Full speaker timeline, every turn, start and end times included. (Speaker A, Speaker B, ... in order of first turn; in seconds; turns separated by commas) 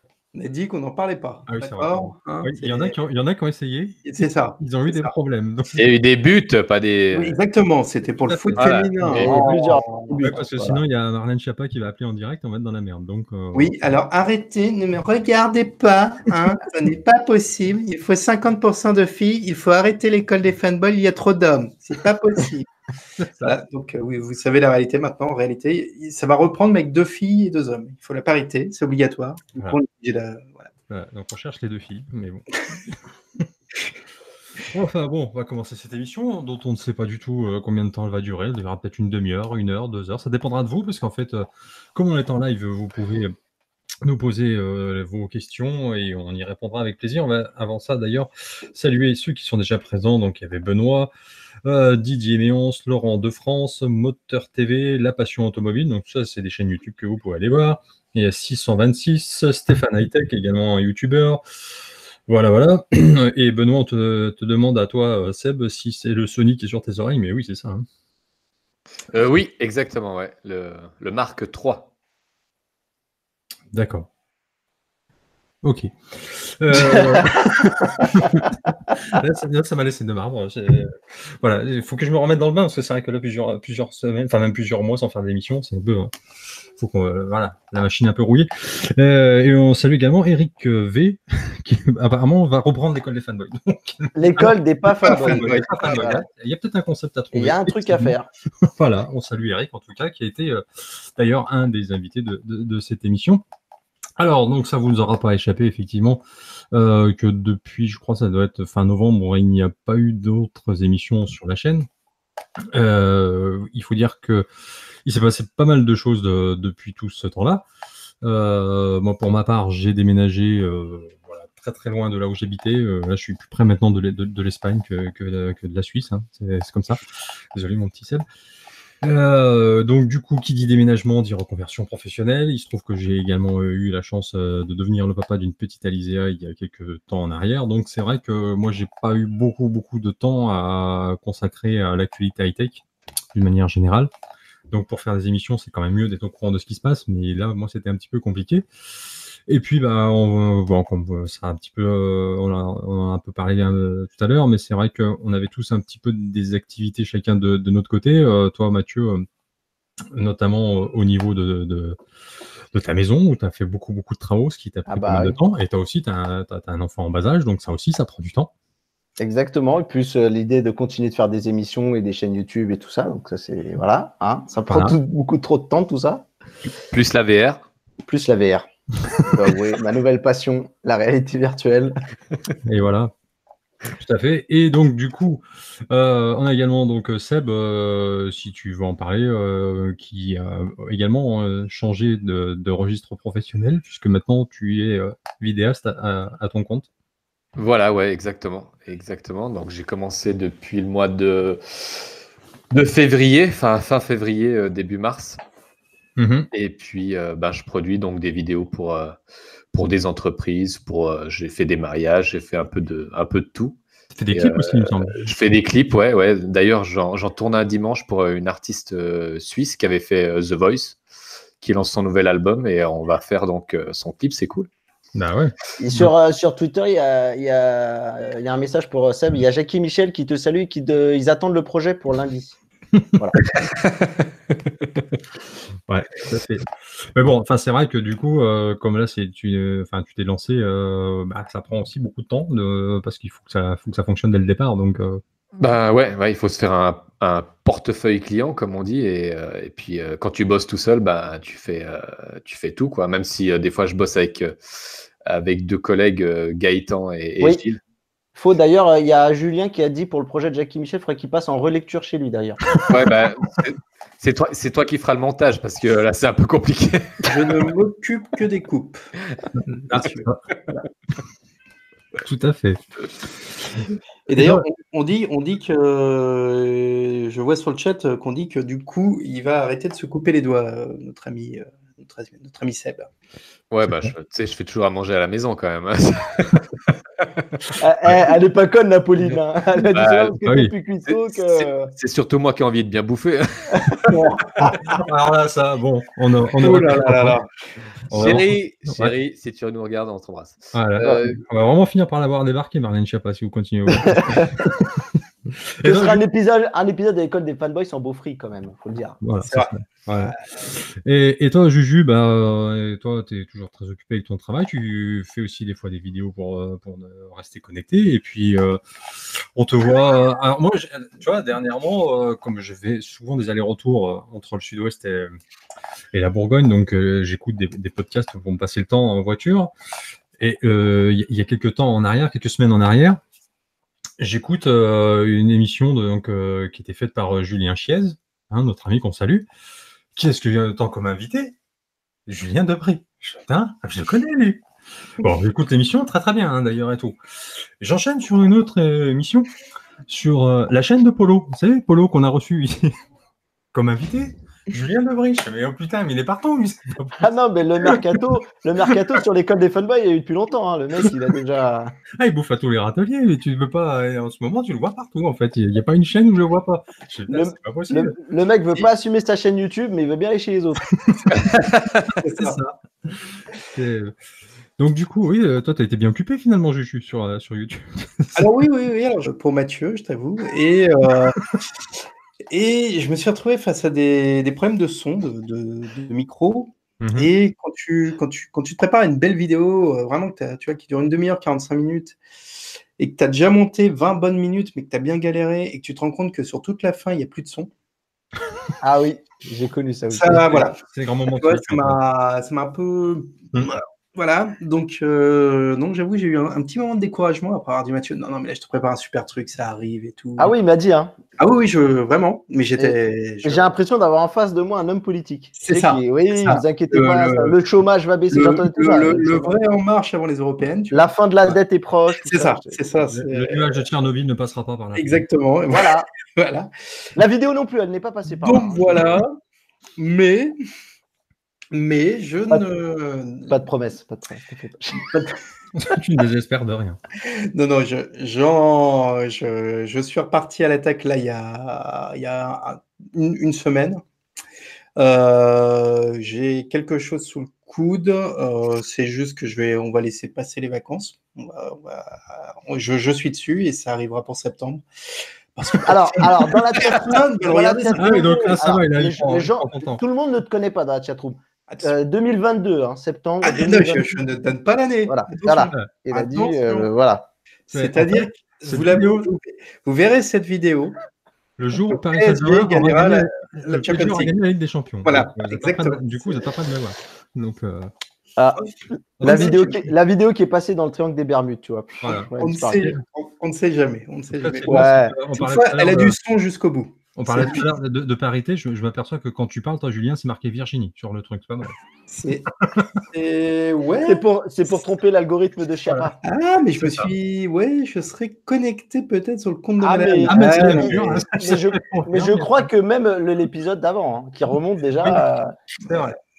Speaker A: 0.3-2.9, Speaker B: 1.5-4.0, Speaker A: 4.0-5.1, Speaker B: 4.6-5.8, Speaker C: 5.8-7.4, Speaker A: 7.1-10.1, Speaker B: 8.3-9.5, Speaker C: 8.6-9.5, Speaker D: 9.1-10.8, Speaker B: 10.2-13.7, Speaker A: 13.5-22.7, Speaker B: 23.2-23.6, Speaker A: 23.4-30.7, Speaker B: 30.9-33.5, Speaker B: 34.7-43.3, Speaker B: 44.0-51.1, Speaker B: 51.6-61.4, Speaker B: 62.3-67.8, Speaker C: 69.1-71.9, Speaker B: 73.7-74.1, Speaker B: 75.6-86.1, Speaker B: 86.8-103.4, Speaker D: 94.1-96.2, Speaker A: 95.0-96.1, Speaker D: 97.3-98.3, Speaker B: 104.2-111.9, Speaker B: 112.7-114.5, Speaker B: 115.0-117.6, Speaker B: 118.2-127.0, Speaker B: 127.5-128.2, Speaker B: 129.0-144.1, Speaker B: 144.7-148.6, Speaker B: 149.5-159.2, Speaker B: 160.1-162.0, Speaker B: 162.7-168.5, Speaker D: 164.9-165.3, Speaker D: 169.2-176.3, Speaker B: 174.7-175.0, Speaker C: 176.9-177.6, Speaker D: 178.1-178.7, Speaker D: 179.3-182.0, Speaker B: 182.6-183.1, Speaker B: 183.9-196.9, Speaker C: 197.6-202.1, Speaker C: 202.7-205.4, Speaker B: 206.2-206.5, Speaker C: 206.5-209.2, Speaker C: 209.7-213.8, Speaker B: 214.1-215.3, Speaker C: 214.3-221.0, Speaker C: 221.6-224.7, Speaker B: 225.1-226.1, Speaker D: 225.8-232.6, Speaker B: 235.9-245.2, Speaker C: 245.6-254.6, Speaker C: 255.2-257.8, Speaker D: 258.4-262.6, Speaker C: 262.8-267.3, Speaker A: 267.2-269.0, Speaker B: 269.5-270.4, Speaker A: 269.9-270.2, Speaker B: 272.2-272.8, Speaker A: 274.3-283.1, Speaker B: 274.3-274.6, Speaker C: 283.7-286.6, Speaker B: 283.9-284.1, Speaker D: 287.7-291.9, Speaker C: 289.9-290.4, Speaker B: 290.4-290.7, Speaker C: 291.5-294.1, Speaker D: 293.8-294.7, Speaker B: 294.8-297.4, Speaker A: 296.6-297.5, Speaker B: 298.1-299.1, Speaker C: 298.1-300.7, Speaker B: 300.7-306.2, Speaker D: 301.0-301.3, Speaker D: 304.1-304.7, Speaker D: 305.8-309.2, Speaker B: 309.2-325.3, Speaker A: 309.4-309.7, Speaker A: 310.2-310.7, Speaker B: 326.1-329.7, Speaker B: 330.4-333.2, Speaker B: 334.2-339.5, Speaker B: 340.1-341.5, Speaker B: 342.3-344.6, Speaker B: 345.2-347.2, Speaker B: 347.8-349.5, Speaker B: 350.1-352.9, Speaker B: 353.7-357.3, Speaker D: 357.2-361.9, Speaker B: 357.8-358.2, Speaker B: 362.2-368.1, Speaker D: 367.3-370.9, Speaker B: 371.0-371.4, Speaker A: 372.1-372.6, Speaker B: 372.4-372.7, Speaker B: 373.7-374.1, Speaker B: 374.8-378.5, Speaker A: 378.3-381.5, Speaker A: 382.5-392.2, Speaker B: 387.0-387.3, Speaker A: 393.0-397.7, Speaker D: 398.8-400.6, Speaker A: 400.1-410.5, Speaker B: 400.5-402.0, Speaker D: 410.4-411.1, Speaker A: 411.4-413.7, Speaker D: 412.8-419.5, Speaker A: 415.6-417.6, Speaker A: 418.3-421.5, Speaker D: 420.9-422.8, Speaker A: 422.2-423.8, Speaker B: 423.0-425.2, Speaker A: 424.9-426.7, Speaker D: 425.7-426.1, Speaker D: 427.1-429.2, Speaker A: 428.4-429.4, Speaker A: 430.0-430.5, Speaker A: 431.7-433.5, Speaker D: 433.5-435.2, Speaker B: 435.7-437.0, Speaker A: 437.2-444.0, Speaker A: 444.9-454.8, Speaker A: 455.5-458.6, Speaker D: 455.9-464.2, Speaker B: 457.9-460.0, Speaker A: 461.7-461.9, Speaker A: 463.4-466.9, Speaker D: 465.1-467.3, Speaker A: 467.7-471.0, Speaker B: 467.7-469.3, Speaker B: 471.6-477.9, Speaker A: 471.9-474.3, Speaker A: 475.0-476.4, Speaker D: 478.4-482.9, Speaker B: 479.2-479.8, Speaker A: 479.2-479.7, Speaker B: 482.0-482.3, Speaker A: 482.4-487.6, Speaker B: 484.3-486.2, Speaker D: 484.6-485.1, Speaker B: 487.1-491.8, Speaker A: 492.1-492.5, Speaker B: 492.6-493.0, Speaker A: 493.1-494.2, Speaker D: 494.0-496.2, Speaker A: 496.2-501.2, Speaker B: 496.8-497.1, Speaker D: 499.8-506.1, Speaker B: 500.3-502.7, Speaker A: 505.8-506.1